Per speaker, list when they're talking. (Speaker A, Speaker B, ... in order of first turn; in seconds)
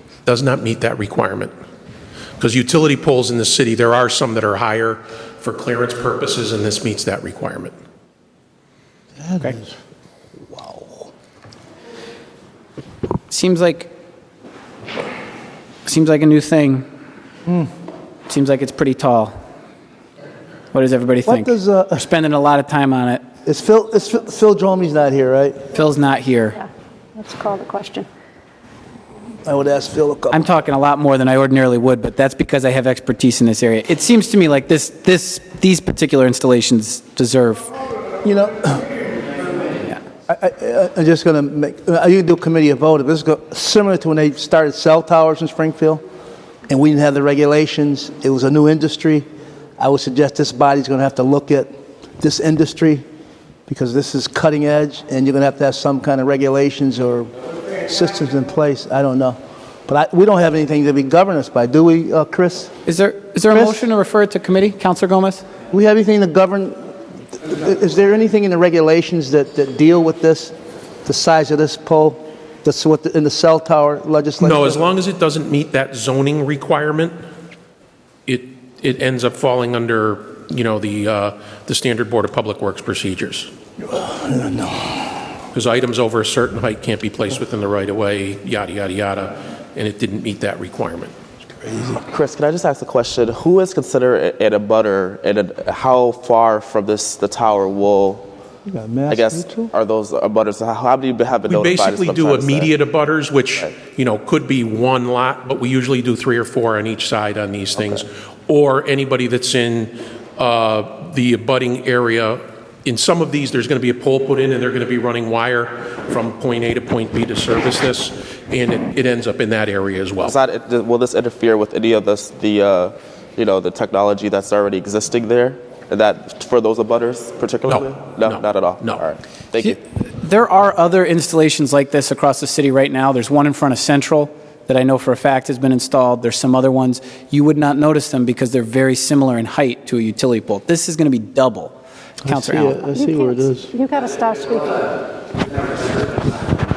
Speaker A: 0.2-1.5, 2.4-7.7, 74.4-77.1, 78.3-83.5, 85.5-91.1, 101.5-120.4, 127.7-129.0
Speaker B: 9.2-9.7, 10.5-11.1, 21.2-22.1, 23.4-25.6, 29.4-30.5, 38.2-38.9, 40.3-46.0, 46.7-49.2, 49.8-53.0, 53.7-57.3, 57.8-62.7, 63.5-63.8, 65.7-70.5, 71.0-74.8, 83.8-85.2, 91.5-92.0, 98.7-99.7, 142.2-143.7
Speaker C: 13.3-13.9, 15.8-16.8, 18.3-19.3, 20.7-23.2, 25.7-26.6, 30.3-37.7, 62.9-65.4, 129.6-142.8
Speaker D: 26.6-28.1, 142.9-145.0
Speaker E: 92.1-98.3, 99.1-102.7, 120.2-129.8